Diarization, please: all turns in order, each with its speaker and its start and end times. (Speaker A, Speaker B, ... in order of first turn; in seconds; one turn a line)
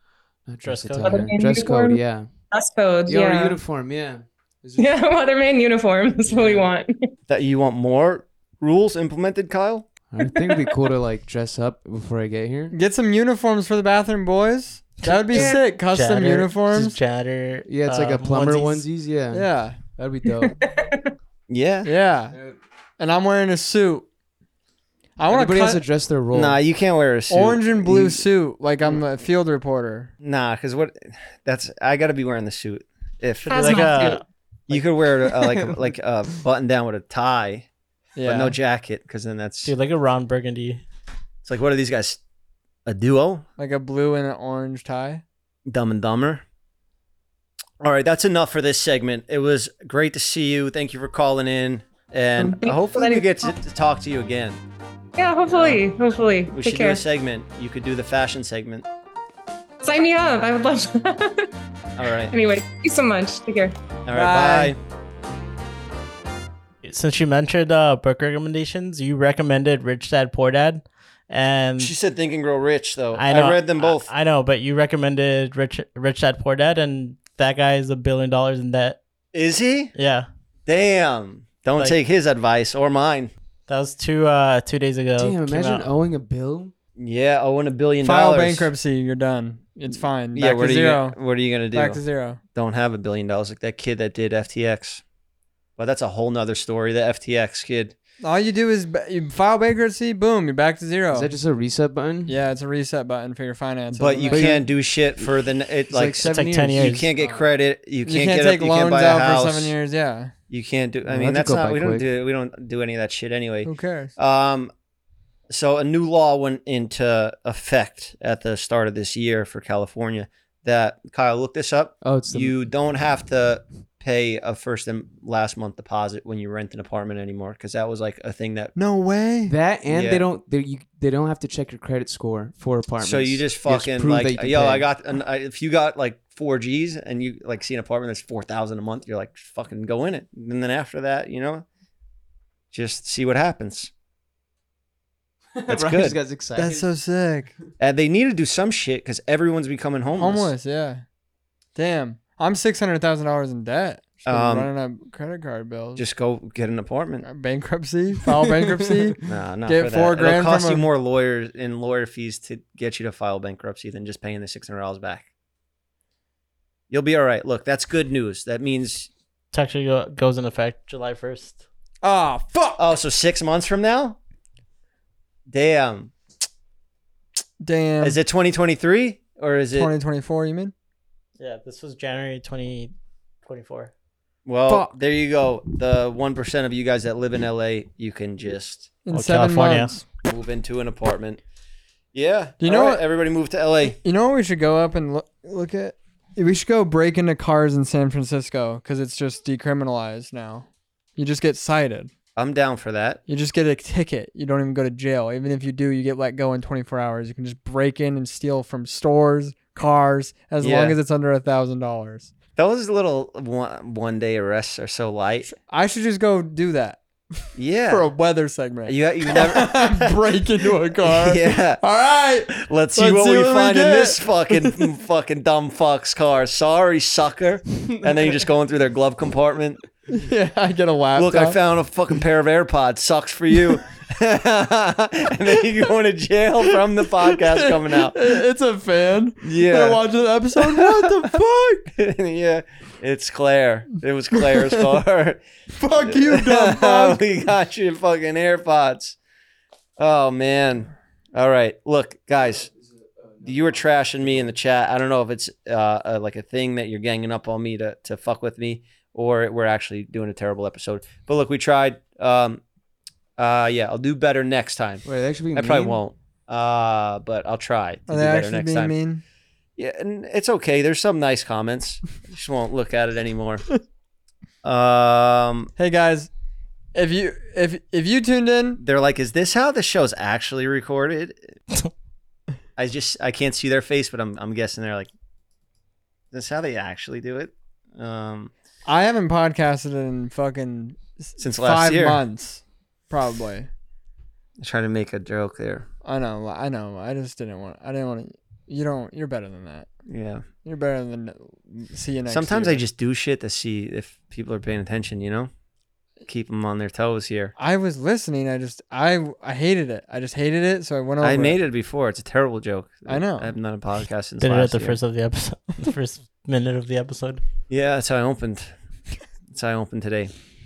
Speaker A: 0.4-2.4
Speaker B: 0.6-1.3
Speaker C: 1.0-3.6
Speaker A: 3.0-4.9
Speaker C: 4.8-7.1
Speaker A: 6.2-6.7
Speaker D: 7.3-9.9
Speaker A: 10.1-12.8
Speaker E: 12.7-17.0
Speaker B: 15.1-18.9
Speaker C: 15.3-15.7
Speaker A: 17.6-20.6
Speaker E: 19.3-19.8
Speaker C: 20.4-21.1
Speaker D: 21.5-21.9
Speaker E: 21.8-22.4
Speaker A: 22.3-22.6
Speaker E: 23.0-24.1
Speaker E: 25.2-25.8
Speaker A: 25.3-26.6
Speaker D: 26.3-28.2
Speaker E: 27.3-30.1
Speaker D: 30.2-33.9
Speaker B: 33.4-34.2
Speaker C: 33.5-34.2
Speaker D: 34.7-37.7
Speaker A: 35.3-35.8
Speaker E: 38.1-38.6
Speaker D: 38.2-39.7
Speaker B: 39.6-40.8
Speaker D: 41.4-42.2
Speaker D: 42.9-43.5
Speaker E: 43.6-45.2
Speaker D: 45.6-46.4
Speaker D: 47.8-54.6
Speaker C: 52.4-53.5
Speaker C: 55.1-57.0
Speaker D: 55.5-55.9
Speaker D: 56.5-58.9
Speaker C: 59.8-61.5
Speaker D: 62.0-62.3
Speaker C: 62.2-63.7
Speaker D: 64.0-64.8
Speaker E: 64.1-64.8
Speaker B: 66.8-71.9
Speaker D: 71.8-74.1
Speaker B: 73.2-79.0
Speaker D: 79.3-79.9
Speaker B: 80.0-80.3
Speaker D: 80.7-83.3
Speaker B: 83.7-85.9
Speaker A: 85.2-86.7
Speaker D: 87.0-88.7
Speaker E: 88.0-92.4
Speaker D: 90.3-92.0
Speaker D: 92.5-95.0
Speaker D: 95.8-97.9
Speaker E: 98.2-101.3
Speaker A: 101.1-102.4
Speaker E: 102.3-104.6
Speaker D: 104.0-109.8
Speaker A: 104.3-107.4
Speaker B: 106.2-107.1
Speaker E: 108.0-110.3
Speaker D: 110.5-114.7
Speaker A: 111.0-112.1
Speaker E: 113.6-114.1
Speaker D: 115.5-128.7
Speaker A: 122.0-122.6
Speaker E: 128.7-129.5
Speaker A: 129.4-134.9
Speaker D: 129.9-130.2
Speaker D: 133.0-141.6
Speaker D: 142.7-143.9
Speaker A: 145.6-146.9
Speaker D: 145.7-146.2
Speaker E: 146.5-147.5
Speaker D: 147.8-150.5
Speaker E: 150.1-151.0
Speaker E: 151.8-156.0
Speaker D: 154.2-154.7
Speaker D: 155.9-157.3
Speaker E: 157.2-160.9
Speaker A: 158.3-159.2
Speaker D: 159.3-165.3
Speaker D: 166.9-169.1
Speaker B: 169.5-171.6
Speaker E: 172.0-172.8
Speaker D: 172.8-174.2
Speaker D: 175.5-176.1
Speaker E: 177.6-178.2
Speaker D: 178.0-179.9
Speaker E: 179.7-180.7
Speaker B: 181.4-182.9
Speaker B: 183.4-183.9
Speaker D: 184.4-188.9
Speaker E: 189.0-190.0
Speaker B: 189.1-189.9
Speaker D: 190.2-191.4
Speaker D: 192.1-194.0
Speaker E: 192.6-193.0
Speaker E: 194.0-202.1
Speaker D: 202.3-203.2
Speaker E: 203.3-212.3
Speaker D: 210.6-211.0
Speaker D: 212.6-215.5
Speaker E: 215.5-224.9
Speaker D: 217.5-218.1
Speaker D: 218.8-220.4
Speaker D: 221.0-221.8
Speaker D: 222.5-229.8
Speaker E: 230.1-231.6
Speaker D: 231.2-238.3
Speaker E: 237.2-241.9
Speaker D: 239.4-240.0
Speaker D: 240.6-241.3
Speaker D: 241.9-245.4
Speaker E: 244.3-244.8
Speaker E: 245.7-247.2
Speaker D: 246.0-249.2
Speaker D: 250.0-252.7
Speaker A: 252.7-254.5
Speaker D: 253.4-262.6
Speaker D: 263.4-268.9
Speaker A: 265.0-266.0
Speaker E: 268.1-269.2
Speaker D: 269.8-273.6
Speaker D: 274.6-275.7
Speaker E: 275.8-276.3
Speaker E: 276.9-278.8
Speaker D: 278.8-281.5
Speaker D: 282.8-285.1
Speaker D: 286.3-288.5
Speaker E: 288.9-293.7
Speaker D: 291.4-292.2
Speaker D: 294.6-295.9
Speaker E: 296.0-299.9
Speaker D: 300.1-300.4
Speaker E: 300.6-302.8
Speaker D: 302.3-305.5
Speaker D: 306.3-307.5
Speaker E: 307.6-311.6
Speaker D: 311.2-315.0
Speaker E: 313.1-313.5
Speaker B: 314.4-317.4
Speaker D: 317.7-318.7
Speaker D: 319.5-320.3